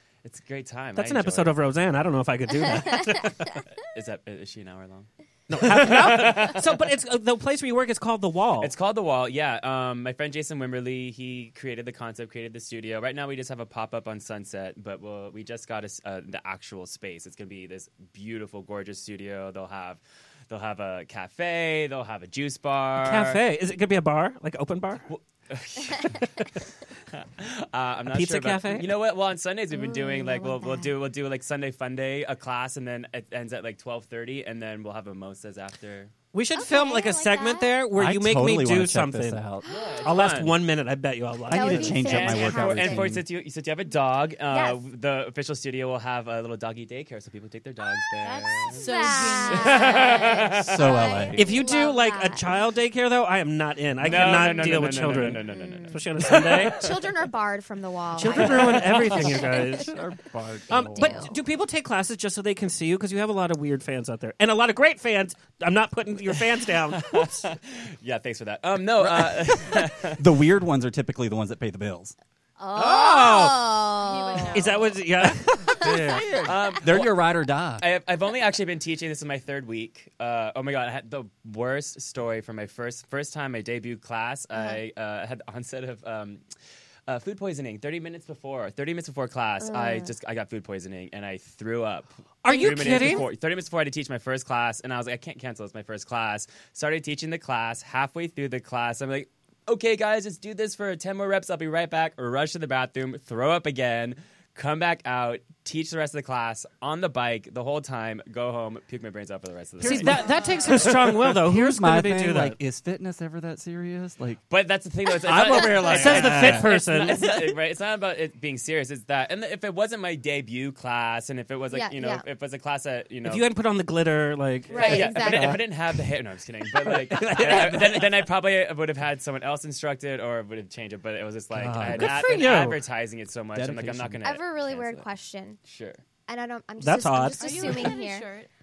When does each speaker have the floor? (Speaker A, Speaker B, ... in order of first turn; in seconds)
Speaker A: 0.2-1.5, 3.8-6.7, 8.6-23.4, 25.1-26.3, 27.1-36.1, 39.6-40.6, 41.8-51.1, 54.0-56.7, 67.0-70.2, 76.4-77.2, 77.8-86.4, 87.1-110.3, 114.5-123.5, 124.8-135.1, 135.7-136.0
Speaker B: 1.0-3.4, 5.5-8.7, 23.0-25.1, 28.1-28.9, 36.3-39.5, 40.0-42.0, 51.4-56.8, 58.2-59.9, 60.7-67.3, 72.8-73.8, 74.5-75.9, 92.4-93.3, 109.8-112.6, 115.3-117.2, 123.2-125.0, 127.1-128.1, 131.9-132.8, 136.8-137.9
Speaker C: 25.9-26.2, 29.7-30.9, 36.5-37.7, 39.6-40.1, 41.5-43.1, 44.5-44.8, 48.8-52.5, 55.4-56.0, 56.7-59.7, 60.7-61.4, 72.6-74.7, 84.5-84.8, 89.6-90.1, 92.5-93.2, 121.7-122.2, 124.7-125.6, 134.2-135.6, 136.3-138.3
Speaker D: 38.0-39.7, 41.5-43.2, 50.6-51.5, 58.3-61.3, 69.0-72.1, 75.8-77.8, 109.9-110.2, 111.1-114.4, 115.2-117.3, 125.2-125.6, 131.5-132.5, 133.5-134.2
Speaker E: 48.2-50.6, 74.0-75.0, 110.2-110.7, 137.4-138.5